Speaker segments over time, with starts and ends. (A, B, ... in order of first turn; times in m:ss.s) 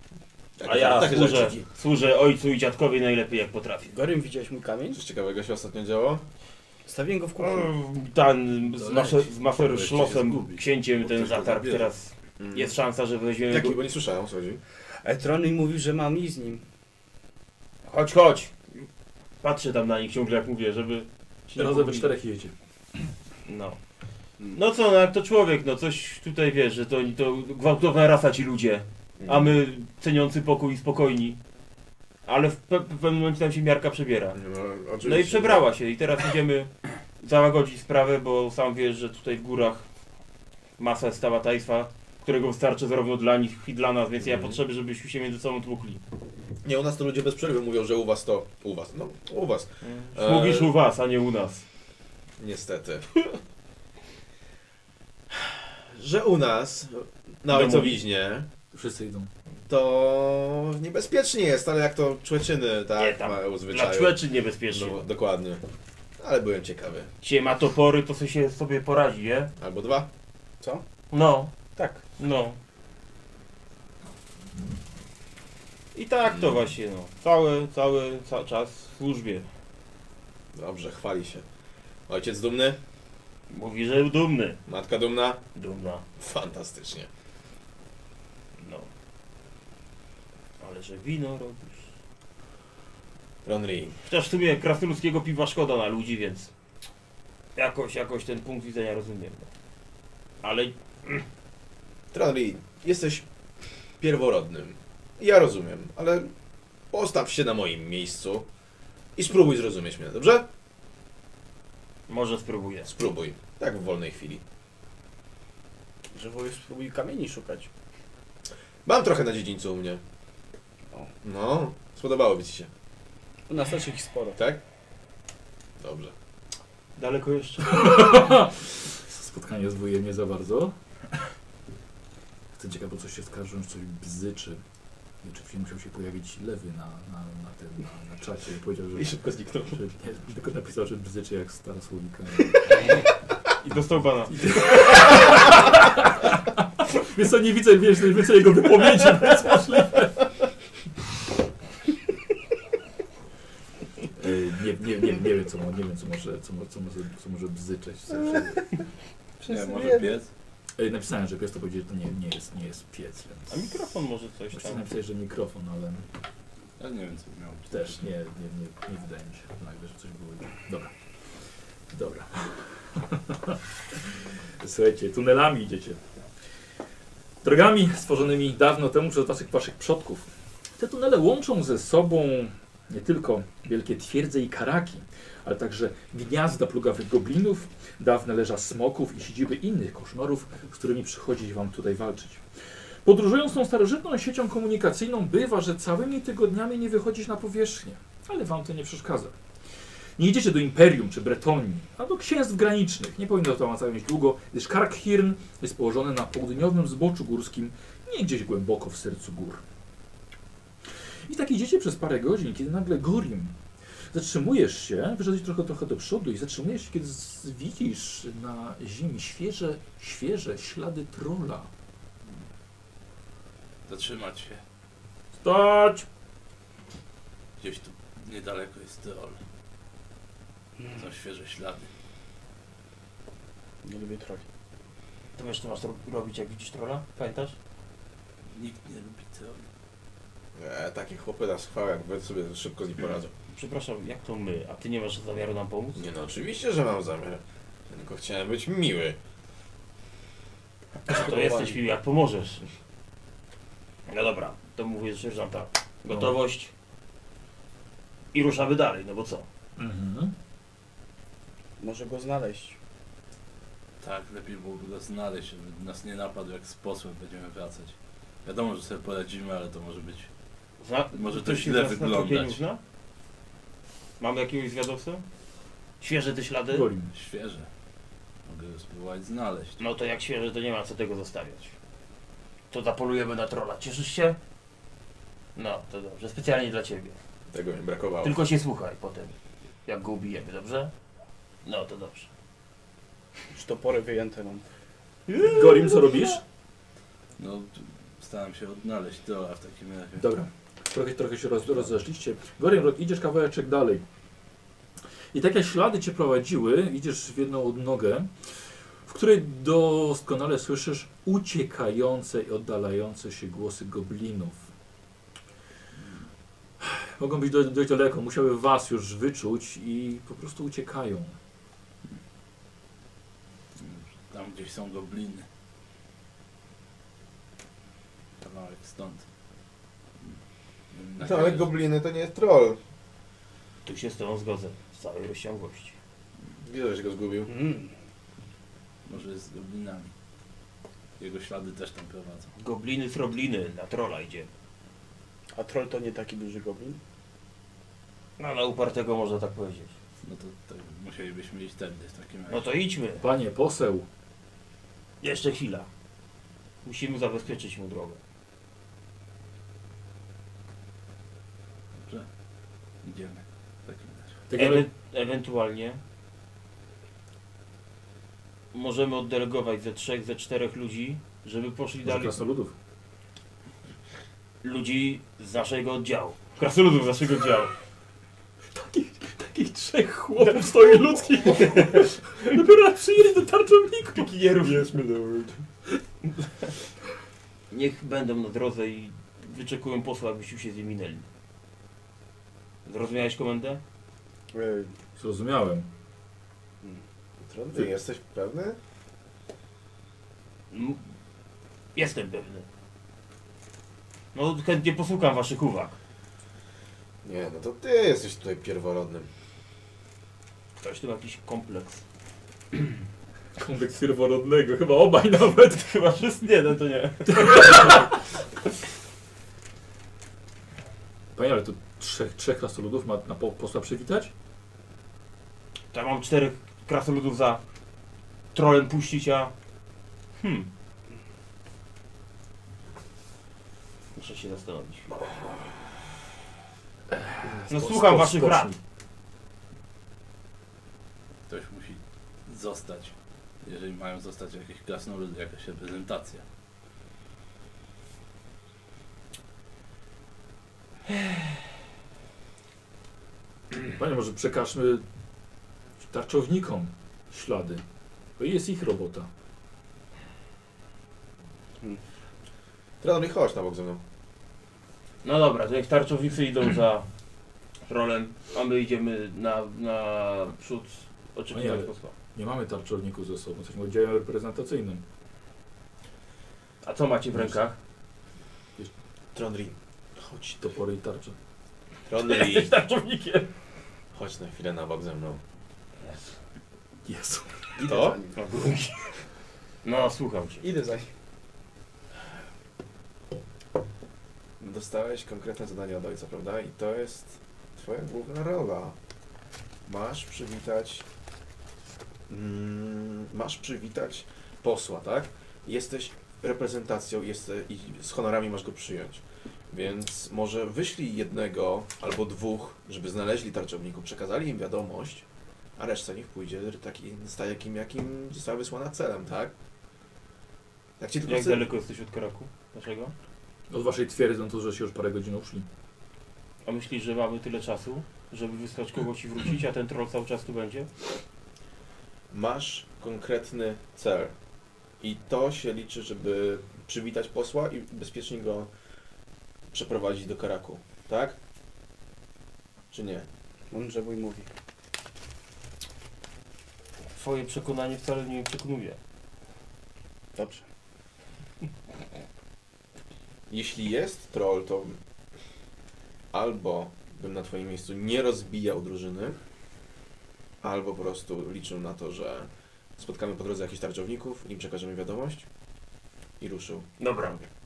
0:00.6-0:01.6 A
0:00.6-0:03.9 B
0:03.9-0:05.0 C
0:04.9-0:06.2 A
0:06.9-0:07.7 C
0:07.4-0:13.8 B
0:08.7-0:11.9 D
0:12.4-0:12.7 A
0:13.5-0:14.6 A
0:15.0-0:16.6 C
0:17.9-0:18.8 B
0:19.4-0:22.1 B
0:21.6-0:22.5 E
0:23.4-0:23.8 B
0:24.5-0:31.4 B
0:29.2-0:29.6 A
0:32.2-0:34.4 B
0:34.3-0:35.7 A
0:35.0-0:39.8 B
0:40.8-0:46.0 B
0:44.2-0:44.6 A
0:46.6-0:50.7 A
0:49.8-0:51.6 B
0:52.4-0:53.2 A
0:55.8-0:58.5 A
0:57.5-0:58.0 B
0:58.7-0:59.3 E
0:59.7-1:05.6 A
1:03.0-1:05.0 B
1:06.2-1:07.1 A
1:07.2-1:09.5 B
1:09.6-1:10.1 A
1:11.1-1:11.6 B
1:11.7-1:12.0 C
1:12.1-1:12.6 B
1:15.9-1:19.5 B
1:20.5-1:21.4 A
1:22.1-1:22.8 A
1:23.5-1:24.6 B
1:24.6-1:25.4 A
1:25.6-1:26.0 B
1:26.2-1:27.1 A
1:28.6-1:28.9 B
1:30.6-1:31.9 B
1:33.4-1:34.0 A
1:34.0-1:36.5 B
1:37.6-1:39.5 B
1:40.4-1:41.2 B
1:42.1-1:43.3 A
1:44.0-1:46.3 A
1:46.9-1:48.5 A
1:49.2-1:50.5 A
1:52.1-1:52.9 B
1:52.8-1:54.4 A
1:56.1-1:57.7 C
1:58.8-2:00.0 A
2:01.2-2:02.7 A
2:03.5-2:04.4 C
2:05.8-2:06.1 A
2:07.0-2:07.9 B
2:07.6-2:10.7 E
2:12.6-2:14.6 E
2:15.2-2:19.2 E
2:19.0-2:19.8 A
2:19.7-2:22.9 E
2:23.6-2:24.5 B
2:24.3-2:30.3 E
2:34.2-2:38.6 E
2:38.2-2:38.6 C
2:39.4-2:40.1 C
2:39.5-2:40.3 D
2:40.8-2:43.6 E
2:43.5-2:44.8 B
2:44.5-2:46.0 E
2:46.8-2:48.1 D
2:47.7-2:50.9 E
2:51.9-2:53.6 E
2:54.6-2:56.0 E
2:57.4-3:12.4 E
3:13.0-3:19.3 E
3:20.2-3:29.6 E
3:31.3-3:33.5 E
3:34.1-3:41.7 E
3:43.9-3:44.6 D
3:45.4-3:46.0 E
3:47.6-3:49.4 D
3:50.8-3:51.0 C
3:51.0-3:51.9 D
3:53.8-3:54.4 C
3:55.4-3:57.6 B
3:58.5-3:59.6 D
4:00.6-4:03.3 A
4:03.5-4:06.0 B
4:06.0-4:09.2 A
4:11.0-4:12.6 B
4:11.1-4:11.8 C
4:14.1-4:16.7 B
4:18.3-4:19.4 B
4:19.8-4:20.3 E
4:21.8-4:22.8 C
4:24.0-4:30.3 D
4:30.8-4:32.8 B
4:31.1-4:32.6 D
4:34.2-4:35.2 B
4:36.0-4:36.9 B
4:36.7-4:37.1 E
4:37.1-4:37.7 D
4:38.4-4:39.8 D
4:39.8-4:41.7 B
4:42.7-4:44.4 B
4:45.6-4:47.2 B
4:47.5-4:48.4 A
4:48.2-4:50.9 B
4:51.6-4:52.3 B
4:53.5-4:54.6 C
4:55.3-4:56.2 B
4:55.4-4:56.4 E
4:57.4-5:00.3 D
5:00.2-5:04.0 E
5:05.3-5:08.3 E
5:09.0-5:14.6 E
5:16.8-5:21.3 E
5:23.8-5:25.5 D
5:28.4-5:29.2 D
5:30.9-5:31.8 D
5:31.2-5:32.8 A
5:33.8-5:36.0 B
5:36.6-5:37.5 A
5:37.5-5:37.9 C
5:39.0-5:40.1 D
5:41.2-5:42.5 D
5:42.6-5:44.5 B
5:45.5-5:47.0 C
5:48.4-5:49.9 B
5:50.2-5:52.7 D
5:52.5-5:53.2 B
5:53.2-5:54.0 E
5:55.2-5:55.9 B
5:56.8-5:58.2 B
6:02.0-6:02.3 D
6:03.0-6:04.4 D
6:04.5-6:04.8 E
6:04.6-6:06.0 B
6:08.7-6:12.3 B
6:12.0-6:12.7 E
6:14.6-6:17.7 B
6:18.7-6:24.3 E
6:21.6-6:22.6 B
6:24.1-6:25.0 B
6:25.0-6:25.5 C
6:26.4-6:26.7 B
6:27.7-6:31.2 B
6:32.8-6:33.8 B
6:34.5-6:35.0 C
6:35.2-6:35.9 E
6:37.4-6:38.8 A
6:40.7-6:41.0 B
6:42.0-6:42.6 B
6:44.3-6:46.0 B
6:47.2-6:49.3 A
6:50.8-6:52.0 B
6:53.6-6:55.8 E
6:55.7-6:57.9 B
6:57.3-6:58.2 E
7:01.3-7:04.3 E
7:05.9-7:07.6 B
7:08.5-7:09.5 B
7:10.4-7:10.7 B
7:14.1-7:15.6 B
7:17.1-7:18.8 E
7:17.7-7:18.7 B
7:21.5-7:26.4 D
7:33.9-7:35.0 E
7:36.0-7:37.8 E
7:38.4-7:39.3 E
7:43.0-7:44.0 A
7:45.2-7:47.0 B
7:47.9-7:52.1 B
7:51.5-7:55.0 E
7:56.8-7:57.7 B
7:59.3-8:00.6 A
8:00.6-8:01.3 E
8:02.1-8:02.7 A
8:02.2-8:03.5 B
8:04.1-8:05.4 A
8:06.0-8:06.4 B
8:07.0-8:07.5 E
8:07.8-8:08.4 C
8:07.8-8:08.2 A
8:08.3-8:09.2 B
8:09.8-8:10.6 B
8:10.6-8:11.1 C
8:14.6-8:19.0 A
8:19.9-8:21.0 A
8:22.3-8:35.2 A
8:35.8-8:39.5 A
8:41.0-8:41.6 A
8:41.3-8:43.1 B
8:43.7-8:45.6 E
8:46.6-8:50.9 B
8:52.3-8:54.3 A
8:55.0-8:58.7 A
8:59.7-9:01.4 A
9:02.9-9:03.3 A
9:03.7-9:04.5 C
9:07.1-9:09.0 B
9:10.3-9:10.6 C
9:13.5-9:15.0 A
9:16.3-9:19.4 A
9:20.6-9:25.4 A
9:26.4-9:27.4 A
9:27.0-9:27.4 B